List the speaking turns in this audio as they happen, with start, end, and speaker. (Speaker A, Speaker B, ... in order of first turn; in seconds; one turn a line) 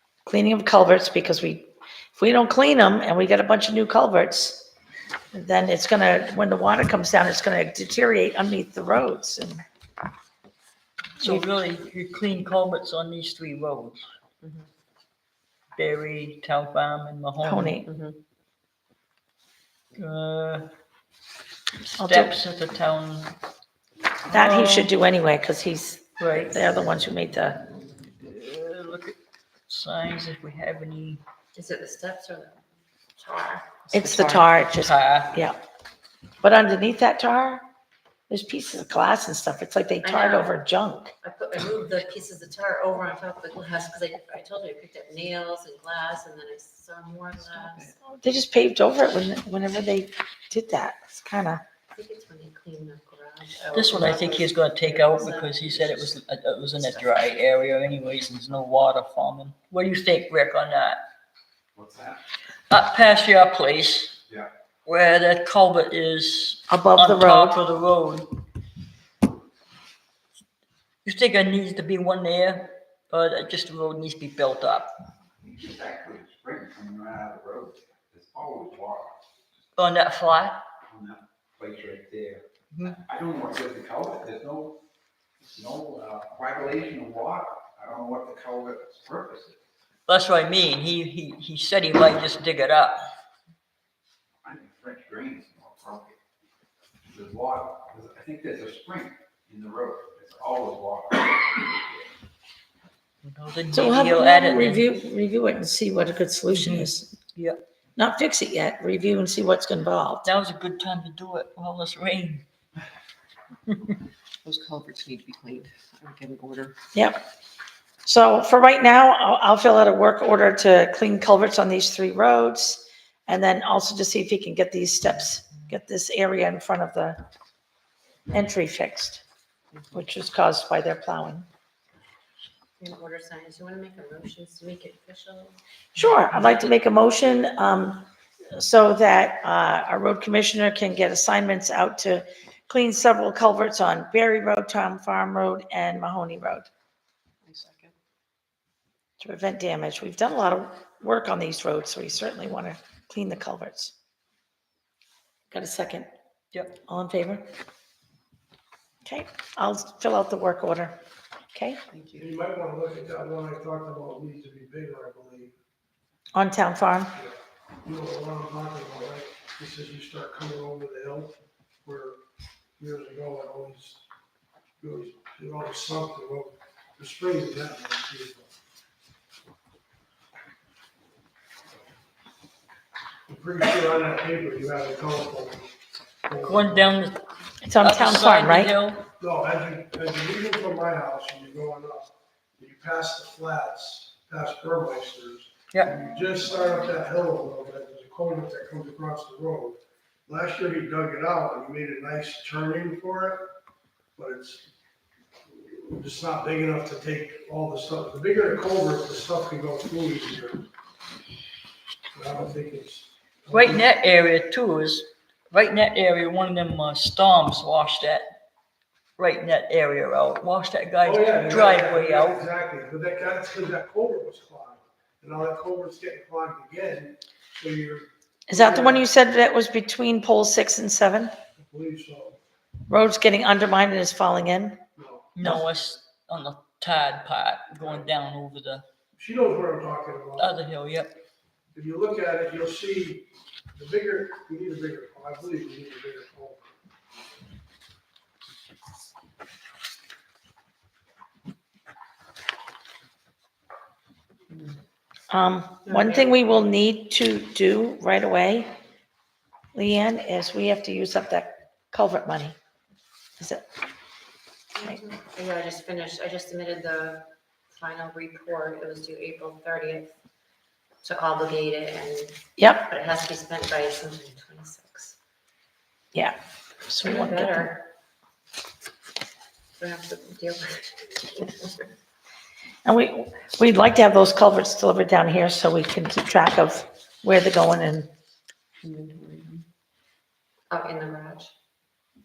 Speaker A: 0.2-4.7
Speaker A: 5.3-9.6
Speaker B: 11.2-14.1
Speaker B: 15.7-17.8
Speaker A: 17.4-17.9
Speaker C: 17.9-18.2
Speaker B: 19.9-20.7
Speaker B: 21.8-23.3
Speaker A: 22.0-22.3
Speaker B: 24.3-24.9
Speaker A: 24.3-27.6
Speaker B: 26.2-26.5
Speaker B: 28.2-29.1
Speaker B: 29.7-31.2
Speaker D: 31.5-33.8
Speaker C: 33.9-34.5
Speaker A: 33.9-35.6
Speaker B: 34.6-35.3
Speaker A: 36.4-37.6
Speaker A: 38.3-41.1
Speaker D: 40.0-40.6
Speaker D: 41.2-48.0
Speaker A: 48.0-51.6
Speaker D: 51.9-56.1
Speaker B: 53.7-61.0
Speaker E: 61.7-62.2
Speaker B: 62.7-64.2
Speaker B: 64.8-68.4
Speaker A: 66.7-67.6
Speaker B: 71.0-74.9
Speaker E: 75.4-79.2
Speaker B: 79.8-80.6
Speaker E: 80.9-84.8
Speaker B: 82.7-83.0
Speaker E: 85.5-89.6
Speaker B: 90.1-93.1
Speaker E: 94.4-96.2
Speaker E: 97.0-102.0
Speaker B: 103.2-104.8
Speaker A: 103.7-107.1
Speaker B: 106.5-107.6
Speaker A: 108.0-110.3
Speaker B: 110.2-112.4
Speaker C: 114.4-116.8
Speaker A: 116.9-117.2
Speaker A: 118.0-127.2
Speaker A: 128.3-129.2
Speaker A: 129.9-131.4
Speaker D: 132.8-135.6
Speaker A: 135.9-146.7
Speaker C: 147.4-147.9
Speaker A: 149.2-153.9
Speaker A: 155.5-156.1
Speaker A: 156.9-157.5
Speaker A: 159.0-161.0
Speaker A: 161.5-161.8
Speaker C: 161.9-162.3
Speaker F: 162.2-165.5
Speaker A: 166.3-167.1
Speaker F: 167.1-171.3
Speaker F: 171.8-172.2
Speaker F: 172.8-174.0
Speaker F: 174.8-178.5
Speaker F: 183.3-185.7
Speaker F: 186.2-186.8
Speaker B: 186.4-187.2
Speaker A: 187.6-188.7
Speaker B: 187.8-189.0
Speaker F: 189.2-203.5
Speaker F: 204.2-204.7
Speaker F: 205.5-210.6
Speaker F: 212.1-213.9
Speaker B: 213.5-218.3
Speaker B: 219.2-222.4
Speaker F: 221.0-229.0
Speaker A: 228.5-231.3
Speaker F: 231.6-232.4
Speaker A: 232.9-234.8
Speaker F: 234.9-235.3
Speaker B: 235.3-238.8
Speaker F: 239.2-240.5
Speaker B: 240.4-241.2
Speaker F: 241.7-246.7
Speaker A: 255.3-258.7
Speaker D: 255.8-256.3
Speaker A: 259.7-262.6
Speaker A: 263.4-263.6
Speaker D: 264.7-270.1
Speaker D: 271.0-275.2
Speaker A: 272.6-272.8
Speaker A: 276.9-277.7
Speaker D: 277.0-277.8
Speaker D: 279.8-281.8
Speaker A: 282.8-288.1
Speaker C: 288.8-289.6
Speaker D: 290.7-291.5